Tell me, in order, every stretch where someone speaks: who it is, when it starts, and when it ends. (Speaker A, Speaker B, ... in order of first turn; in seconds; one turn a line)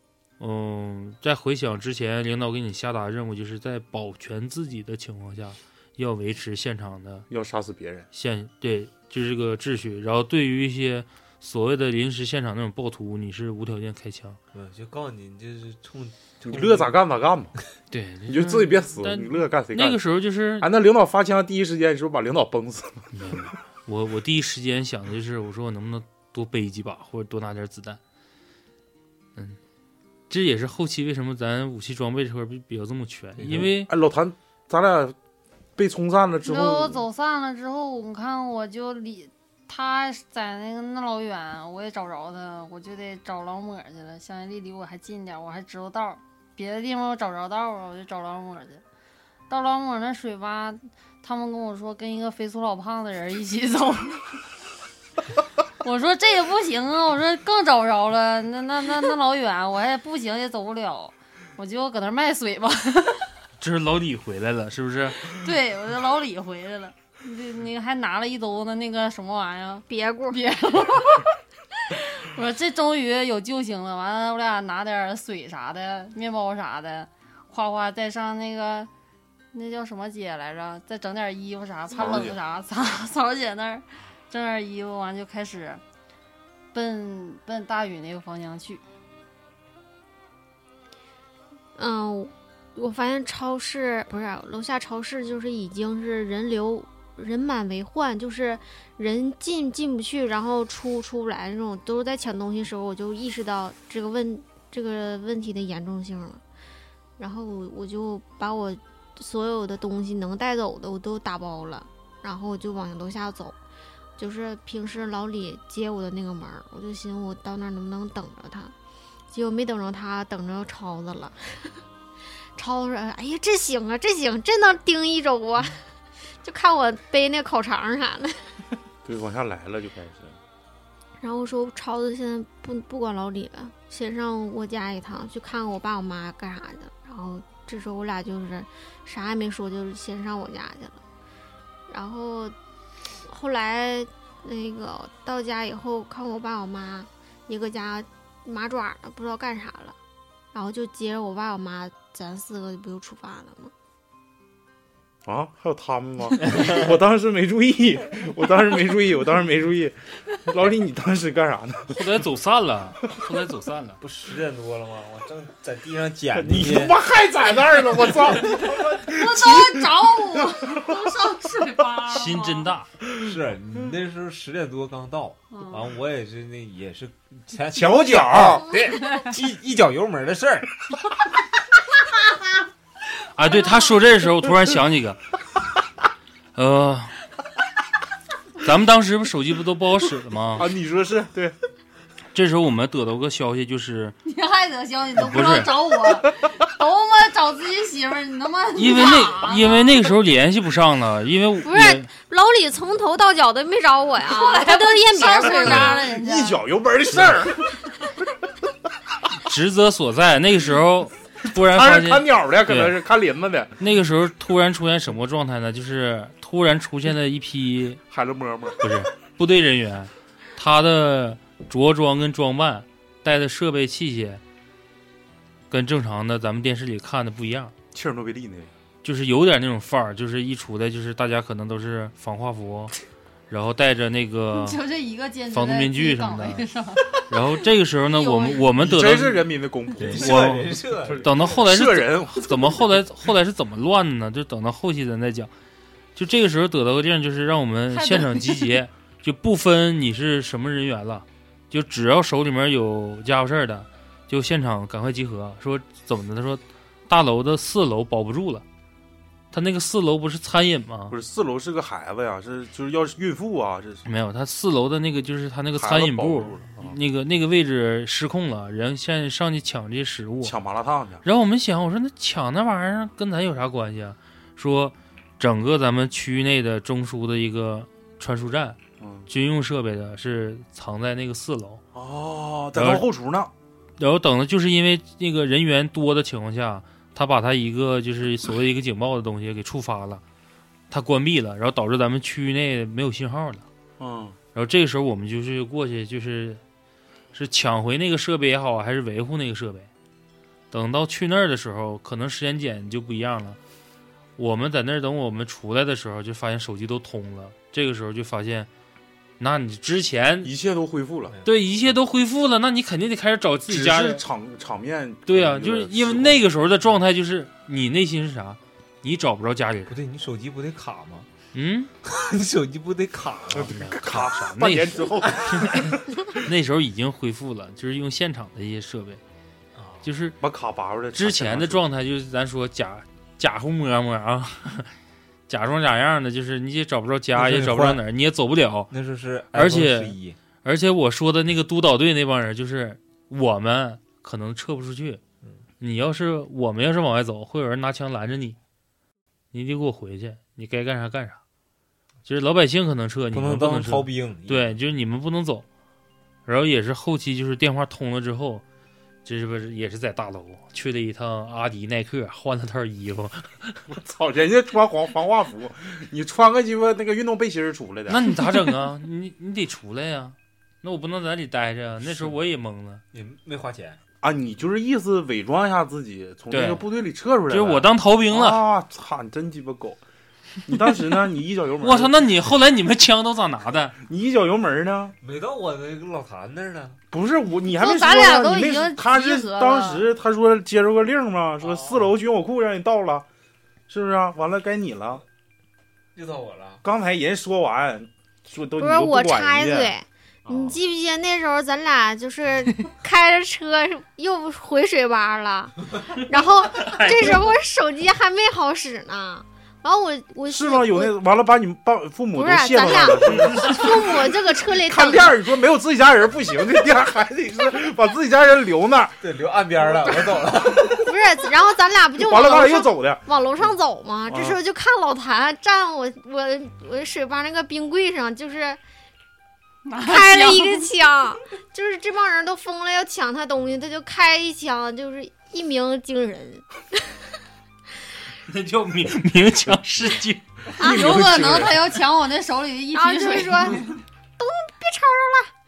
Speaker A: 0.4-7.3
Speaker B: 7.3-8.1
Speaker A: 8.1-14.4
Speaker C: 14.5-16.9
Speaker B: 16.4-17.6
Speaker A: 17.9-20.7
Speaker B: 18.3-20.0
Speaker B: 20.6-23.1
Speaker A: 23.1-28.0
Speaker A: 30.3-33.9
Speaker C: 33.4-33.7
Speaker B: 33.8-35.2
Speaker B: 35.8-37.0
Speaker D: 36.5-48.8
Speaker D: 49.5-54.4
Speaker D: 55.8-63.3
Speaker A: 63.6-65.3
Speaker D: 65.2-71.3
Speaker E: 69.9-70.4
Speaker D: 71.9-78.9
Speaker D: 79.5-85.8
Speaker B: 82.0-82.4
Speaker D: 86.7-88.8
Speaker E: 91.8-106.4
Speaker E: 107.2-113.6
Speaker E: 114.2-118.7
Speaker E: 119.3-121.8
Speaker E: 122.6-125.8
Speaker E: 126.4-128.5
Speaker B: 129.1-130.4
Speaker E: 131.2-141.0
Speaker E: 141.9-142.6
Speaker E: 143.3-150.0
Speaker E: 150.5-153.7
Speaker B: 155.3-162.1
Speaker A: 161.9-164.0
Speaker C: 164.0-166.9
Speaker B: 166.3-171.1
Speaker D: 169.0-172.8
Speaker A: 172.1-172.9
Speaker C: 173.2-180.7
Speaker D: 175.5-175.9
Speaker B: 177.7-178.7
Speaker A: 183.3-185.2
Speaker A: 186.6-187.2
Speaker A: 188.6-190.7
Speaker B: 190.6-191.6
Speaker A: 192.3-194.2
Speaker D: 194.2-200.1
Speaker A: 195.2-195.8
Speaker A: 198.8-202.1
Speaker E: 201.6-206.2
Speaker D: 204.3-206.6
Speaker B: 205.6-207.8
Speaker A: 207.1-207.4
Speaker A: 209.4-212.9
Speaker B: 211.6-213.8
Speaker A: 213.8-218.0
Speaker B: 218.1-218.8
Speaker A: 218.8-224.4
Speaker A: 225.7-227.7
Speaker B: 227.9-228.7
Speaker A: 229.0-232.9
Speaker A: 233.5-234.8
Speaker D: 234.5-237.2
Speaker A: 235.5-236.6
Speaker A: 237.3-239.5
Speaker D: 238.1-238.7
Speaker B: 238.8-243.0
Speaker C: 240.0-241.6
Speaker A: 240.1-245.5
Speaker A: 246.2-258.6
Speaker D: 247.9-248.7
Speaker A: 259.5-261.2
Speaker B: 261.1-264.0
Speaker A: 264.1-270.6
Speaker B: 265.8-267.0
Speaker B: 270.4-271.2
Speaker A: 271.2-278.8
Speaker B: 279.0-279.3
Speaker A: 279.3-281.8
Speaker B: 281.9-283.5
Speaker A: 282.8-283.1
Speaker A: 284.0-290.2
Speaker A: 290.9-293.6
Speaker B: 294.0-294.4
Speaker A: 294.6-296.6
Speaker A: 297.3-299.9
Speaker A: 300.7-303.6
Speaker A: 304.4-308.7
Speaker A: 309.4-310.5
Speaker B: 310.4-311.3
Speaker A: 311.4-314.2
Speaker B: 313.7-316.4
Speaker A: 315.3-319.9
Speaker C: 319.9-321.3
Speaker A: 321.5-321.9
Speaker C: 322.0-323.7
Speaker B: 323.5-326.2
Speaker A: 323.6-329.2
Speaker C: 329.8-330.1
Speaker A: 330.0-330.4
Speaker B: 330.4-331.8
Speaker A: 331.1-334.9
Speaker A: 335.5-338.9
Speaker C: 337.4-338.0
Speaker C: 338.9-340.4
Speaker A: 339.5-345.2
Speaker A: 345.8-348.6
Speaker A: 349.5-351.4
Speaker A: 352.3-355.7
Speaker C: 353.3-354.8
Speaker A: 356.5-358.6
Speaker A: 359.2-363.8
Speaker B: 363.9-368.4
Speaker A: 368.1-373.0
Speaker C: 373.1-374.0
Speaker B: 374.2-380.0
Speaker A: 376.5-376.9
Speaker A: 377.5-378.6
Speaker B: 380.7-382.2
Speaker A: 381.8-384.0
Speaker B: 384.0-385.1
Speaker C: 385.2-387.0
Speaker B: 387.1-393.3
Speaker D: 387.7-390.1
Speaker C: 391.6-392.1
Speaker B: 393.9-395.2
Speaker C: 396.1-396.8
Speaker B: 396.8-399.9
Speaker E: 398.8-411.1
Speaker B: 400.5-400.8
Speaker B: 410.5-419.2
Speaker E: 412.3-415.3
Speaker C: 419.2-421.1
Speaker E: 420.9-428.8
Speaker B: 422.2-423.2
Speaker B: 424.3-424.6
Speaker D: 429.9-430.9
Speaker E: 430.0-436.8
Speaker A: 438.5-440.4
Speaker B: 440.8-441.9
Speaker E: 440.8-441.2
Speaker D: 440.8-444.0
Speaker E: 442.9-445.5